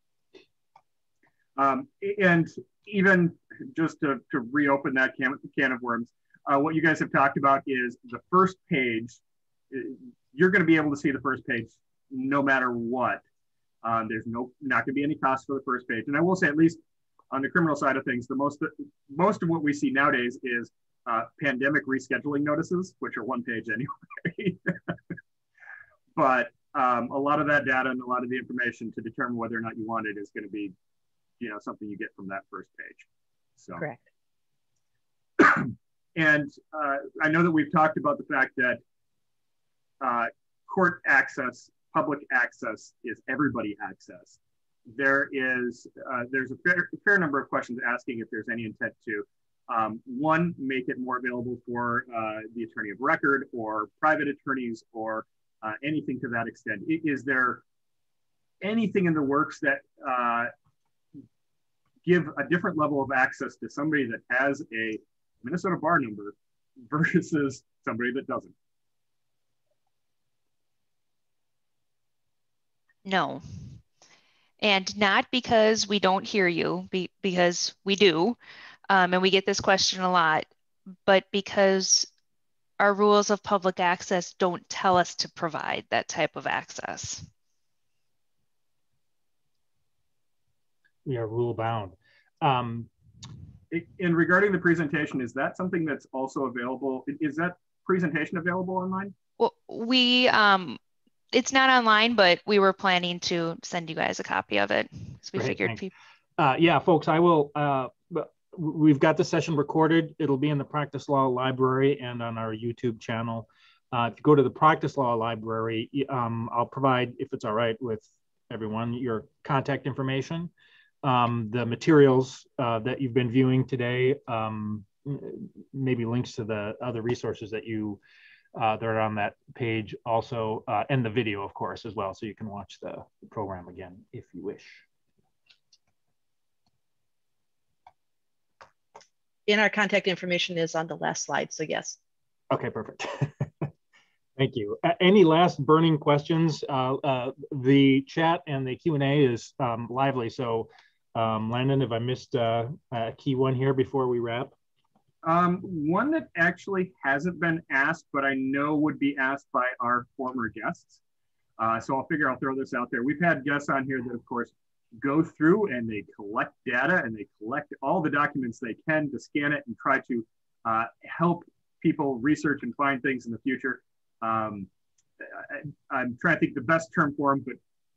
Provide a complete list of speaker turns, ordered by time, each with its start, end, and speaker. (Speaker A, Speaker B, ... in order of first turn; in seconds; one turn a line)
Speaker A: 1.6-9.2
Speaker A: 9.7-13.2
Speaker A: 13.8-16.8
Speaker A: 17.3-24.9
Speaker A: 26.1-30.7
Speaker A: 31.4-33.0
Speaker A: 33.6-33.8
Speaker B: 33.8-34.0
Speaker A: 35.4-38.8
Speaker A: 40.0-44.4
Speaker A: 44.9-57.6
Speaker A: 58.6-60.5
Speaker A: 62.0-68.5
Speaker C: 73.0-73.4
Speaker C: 74.6-78.4
Speaker C: 78.9-80.5
Speaker C: 81.0-82.1
Speaker C: 82.8-87.2
Speaker D: 91.0-92.9
Speaker A: 93.7-99.1
Speaker C: 99.4-100.8
Speaker C: 101.3-105.9
Speaker D: 105.3-105.8
Speaker D: 106.4-120.5
Speaker D: 121.0-128.0
Speaker D: 128.5-134.8
Speaker B: 139.5-142.0
Speaker D: 142.5-143.7
Speaker D: 144.4-154.5
Speaker A: 155.2-161.0
Speaker A: 161.6-174.7
Speaker A: 175.2-177.6